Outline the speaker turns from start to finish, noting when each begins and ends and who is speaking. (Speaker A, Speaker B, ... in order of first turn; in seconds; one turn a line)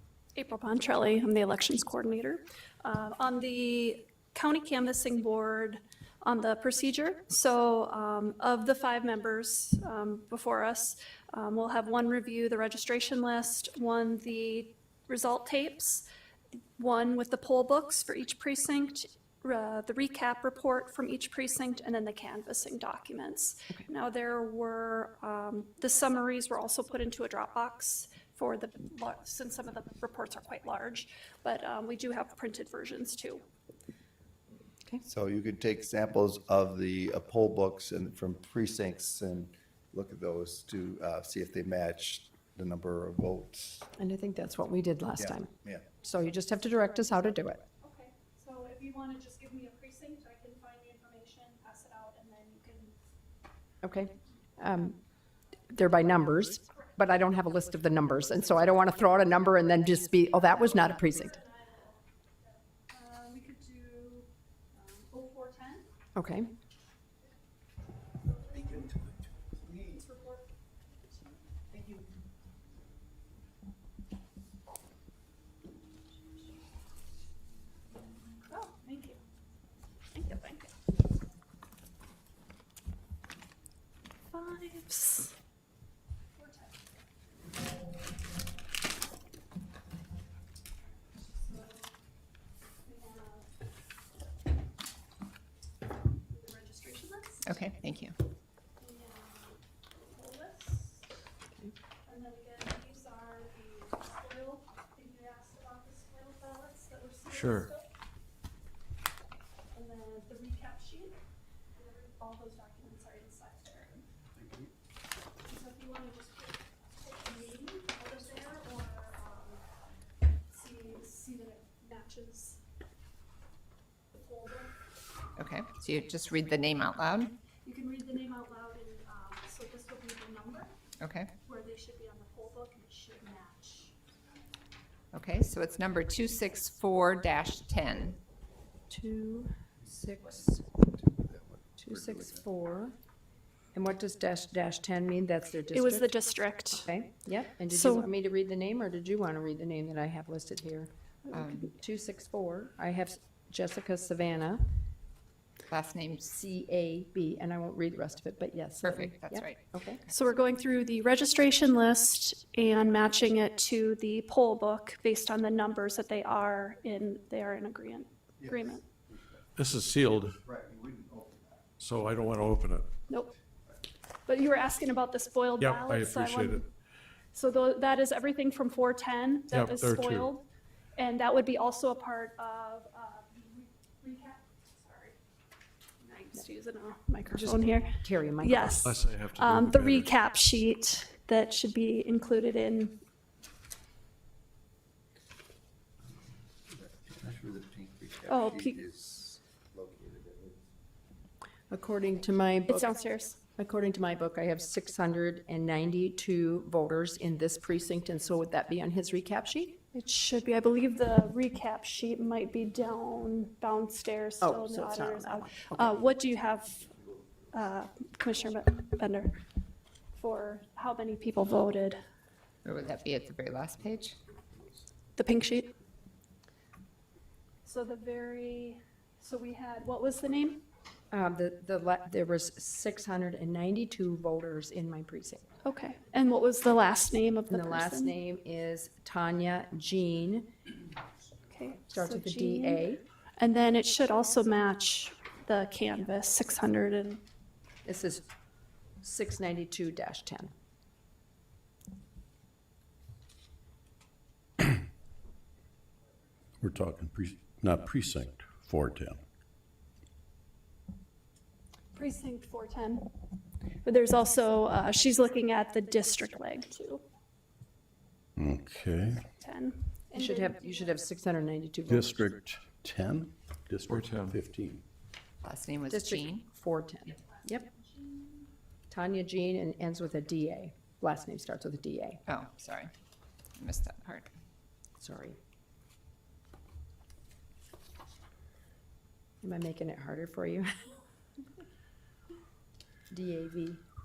Speaker A: 0.3-16.0
Speaker A: 16.8-33.4
Speaker B: 35.0-43.9
Speaker C: 44.0-47.6
Speaker B: 45.2-45.9
Speaker A: 47.8-52.9
Speaker C: 53.8-55.0
Speaker C: 55.7-61.4
Speaker A: 60.3-65.9
Speaker C: 66.1-66.5
Speaker A: 68.2-68.9
Speaker A: 69.7-71.4
Speaker A: 78.5-79.2
Speaker A: 80.1-80.7
Speaker A: 84.3-85.3
Speaker A: 86.3-86.9
Speaker A: 91.0-91.9
Speaker A: 92.8-93.5
Speaker A: 96.3-97.5
Speaker D: 97.4-98.1
Speaker A: 98.8-101.0
Speaker A: 102.0-107.8
Speaker E: 107.3-107.7
Speaker A: 109.7-111.2
Speaker A: 111.7-114.0
Speaker B: 114.4-114.7
Speaker A: 115.4-119.6
Speaker A: 120.5-122.6
Speaker A: 124.2-124.7
Speaker D: 125.3-127.3
Speaker A: 127.6-130.7
Speaker D: 131.0-131.3
Speaker A: 131.4-133.9
Speaker D: 135.1-138.2
Speaker C: 138.9-140.6
Speaker B: 140.7-142.4
Speaker C: 141.8-142.9
Speaker C: 143.7-150.9
Speaker A: 145.7-146.9
Speaker A: 147.7-148.1
Speaker D: 151.3-151.7
Speaker C: 151.7-154.6
Speaker D: 155.7-156.3
Speaker C: 156.2-160.0
Speaker D: 158.8-160.1
Speaker A: 160.1-168.8
Speaker B: 168.4-169.4
Speaker E: 169.6-170.3
Speaker B: 170.4-171.7
Speaker E: 171.8-172.9
Speaker A: 174.2-176.6
Speaker E: 175.6-176.6
Speaker A: 177.3-180.4
Speaker E: 179.5-180.3
Speaker A: 181.0-185.2
Speaker A: 186.0-192.9
Speaker C: 187.3-188.9
Speaker E: 188.8-190.1
Speaker B: 196.7-200.7
Speaker A: 198.3-198.8
Speaker C: 201.7-203.0
Speaker A: 202.7-203.4
Speaker C: 203.6-209.7
Speaker A: 209.9-216.9
Speaker C: 214.4-216.0
Speaker A: 217.5-219.3
Speaker A: 220.2-222.0
Speaker D: 222.6-224.2
Speaker A: 225.2-225.7
Speaker A: 227.6-230.6
Speaker C: 231.1-235.4
Speaker A: 235.6-238.1
Speaker C: 237.5-240.5
Speaker A: 241.5-242.8
Speaker C: 241.9-243.0
Speaker A: 243.4-247.2
Speaker C: 247.8-248.2
Speaker C: 249.0-250.5
Speaker F: 256.6-259.2
Speaker A: 261.9-263.1
Speaker A: 263.8-267.0
Speaker F: 268.4-269.2
Speaker A: 269.4-271.0
Speaker C: 270.1-272.2
Speaker F: 271.9-274.8
Speaker E: 273.9-274.4
Speaker D: 275.4-276.4
Speaker C: 275.9-277.7
Speaker A: 277.1-278.4
Speaker C: 278.9-282.2
Speaker D: 282.3-282.9
Speaker D: 283.6-284.3
Speaker C: 285.0-285.4
Speaker C: 289.4-290.7
Speaker C: 293.1-293.8